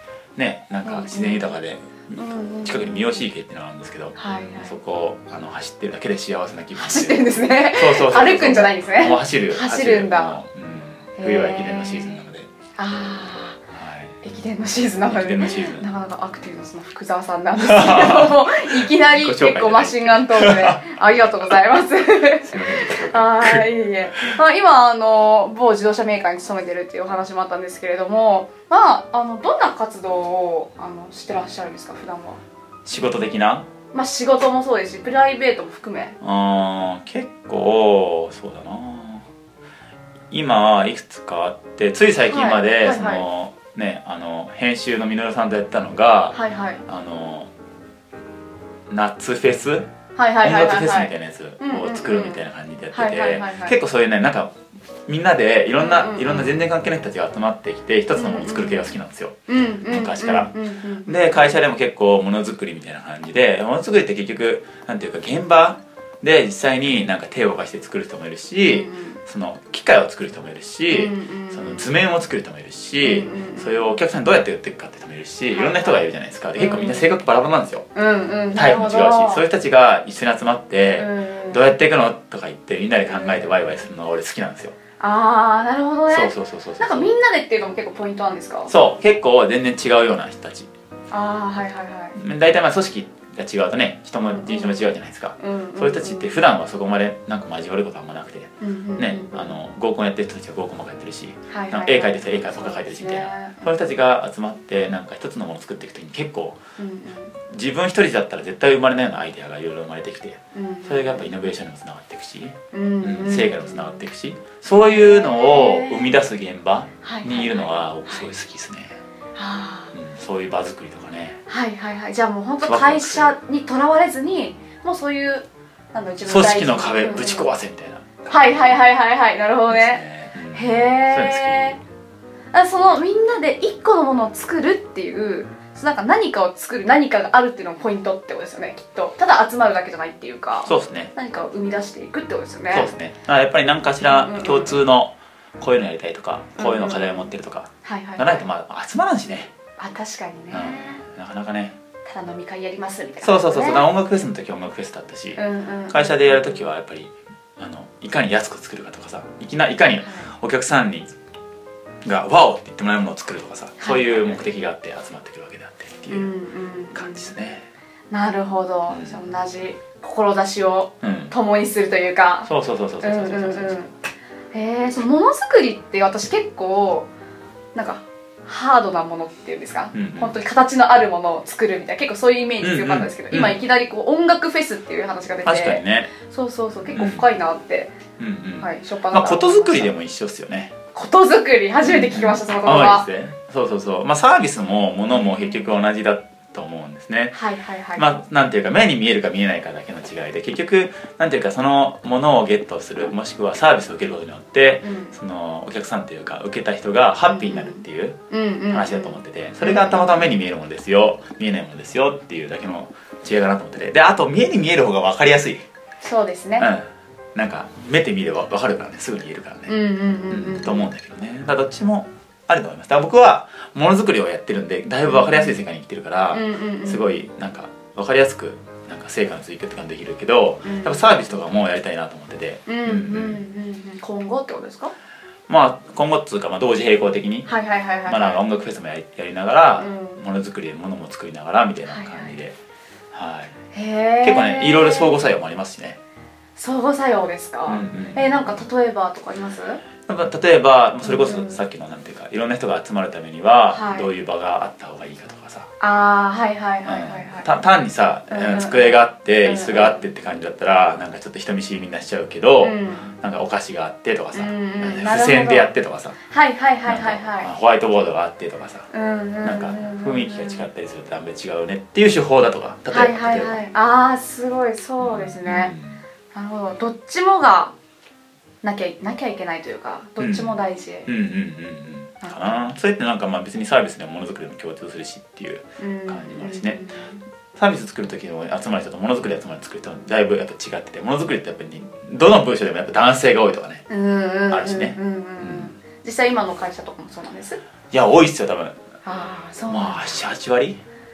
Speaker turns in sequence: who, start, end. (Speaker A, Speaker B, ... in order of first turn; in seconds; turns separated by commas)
Speaker A: 0.3-12.5, Speaker B: 0.8-1.5, Speaker B: 2.1-3.2, Speaker B: 4.2-4.8, Speaker B: 6.7-10.4, Speaker B: 11.2-12.2, Speaker B: 12.8-13.6, Speaker A: 13.7-14.2, Speaker B: 14.2-32.4, Speaker A: 15.0-15.8, Speaker A: 17.6-20.9, Speaker A: 22.4-24.4, Speaker A: 32.9-33.6, Speaker B: 33.9-36.2, Speaker A: 36.2-39.3, Speaker A: 40.3-47.5, Speaker B: 42.2-43.2, Speaker B: 46.3-46.8, Speaker A: 48.9-49.9, Speaker B: 50.1-53.8, Speaker A: 50.4-54.5, Speaker A: 55.1-59.3, Speaker B: 55.8-56.6, Speaker B: 58.1-58.9, Speaker B: 59.5-61.6, Speaker A: 59.9-60.5, Speaker A: 61.0-77.8, Speaker B: 68.7-69.2, Speaker B: 70.9-71.9, Speaker B: 73.0-74.0, Speaker B: 75.5-77.1, Speaker B: 77.9-79.4, Speaker A: 78.5-84.8, Speaker B: 81.0-81.7, Speaker B: 83.0-83.5, Speaker B: 85.0-88.7, Speaker A: 86.1-87.1, Speaker A: 88.7-90.7, Speaker B: 91.1-92.2, Speaker A: 92.1-106.6, Speaker B: 94.2-96.5, Speaker B: 98.6-99.5, Speaker B: 101.5-103.7, Speaker B: 106.8-107.3, Speaker A: 107.5-119.0, Speaker B: 110.5-111.3, Speaker B: 112.7-114.0, Speaker B: 114.7-116.2, Speaker B: 117.0-118.3, Speaker B: 119.3-119.9, Speaker A: 119.9-121.4, Speaker B: 121.5-127.5, Speaker A: 122.6-123.3, Speaker A: 126.2-128.7, Speaker B: 128.3-131.8, Speaker A: 129.7-131.8, Speaker B: 132.5-142.9, Speaker A: 140.7-141.1, Speaker A: 142.7-149.5, Speaker B: 144.0-144.8, Speaker B: 146.6-147.3, Speaker B: 147.8-148.4, Speaker B: 149.8-151.0, Speaker A: 150.5-151.8, Speaker B: 152.0-153.8, Speaker A: 153.2-161.1, Speaker B: 155.3-156.7, Speaker B: 160.0-160.3, Speaker A: 162.0-166.3, Speaker B: 163.8-164.4, Speaker B: 166.1-167.3, Speaker A: 166.9-167.7, Speaker B: 168.1-173.9, Speaker A: 168.9-169.3, Speaker A: 171.0-171.3, Speaker A: 172.4-173.9, Speaker B: 174.5-177.1, Speaker B: 177.7-187.9, Speaker A: 179.9-180.3, Speaker A: 182.6-183.6, Speaker A: 185.4-186.1, Speaker A: 186.9-187.2, Speaker A: 188.2-190.7, Speaker B: 188.6-189.9, Speaker B: 190.9-193.1, Speaker A: 191.8-197.3, Speaker B: 195.1-195.6, Speaker B: 197.3-198.2, Speaker A: 197.9-208.2, Speaker B: 204.8-205.2, Speaker B: 207.3-210.1, Speaker A: 208.7-215.6, Speaker B: 216.0-216.7, Speaker A: 216.6-219.7, Speaker B: 219.7-220.9, Speaker A: 220.3-233.4, Speaker B: 225.0-225.6, Speaker B: 226.3-227.2, Speaker B: 230.6-231.1, Speaker B: 232.7-234.9, Speaker A: 235.5-237.5, Speaker B: 237.5-238.4, Speaker A: 238.1-242.6, Speaker B: 239.8-240.2, Speaker B: 241.9-242.4, Speaker A: 243.1-243.5, Speaker B: 243.7-245.2, Speaker A: 244.2-246.0, Speaker B: 246.6-249.8, Speaker A: 247.7-248.6, Speaker A: 250.0-255.7, Speaker B: 251.0-251.6, Speaker B: 253.7-254.1, Speaker B: 255.8-257.5, Speaker A: 256.8-266.1, Speaker B: 258.3-260.0, Speaker B: 262.6-263.1, Speaker B: 264.3-265.7, Speaker B: 266.3-267.5, Speaker A: 266.8-268.9, Speaker B: 268.9-270.6, Speaker A: 269.4-273.6, Speaker B: 272.9-275.7, Speaker A: 275.0-276.0, Speaker B: 276.3-277.7, Speaker B: 278.6-281.1, Speaker A: 280.2-280.5, Speaker A: 281.1-286.8, Speaker B: 285.8-287.2, Speaker A: 287.6-293.8, Speaker B: 293.9-297.6, Speaker A: 294.5-295.7, Speaker A: 297.9-298.8, Speaker B: 299.0-300.1, Speaker A: 299.7-300.8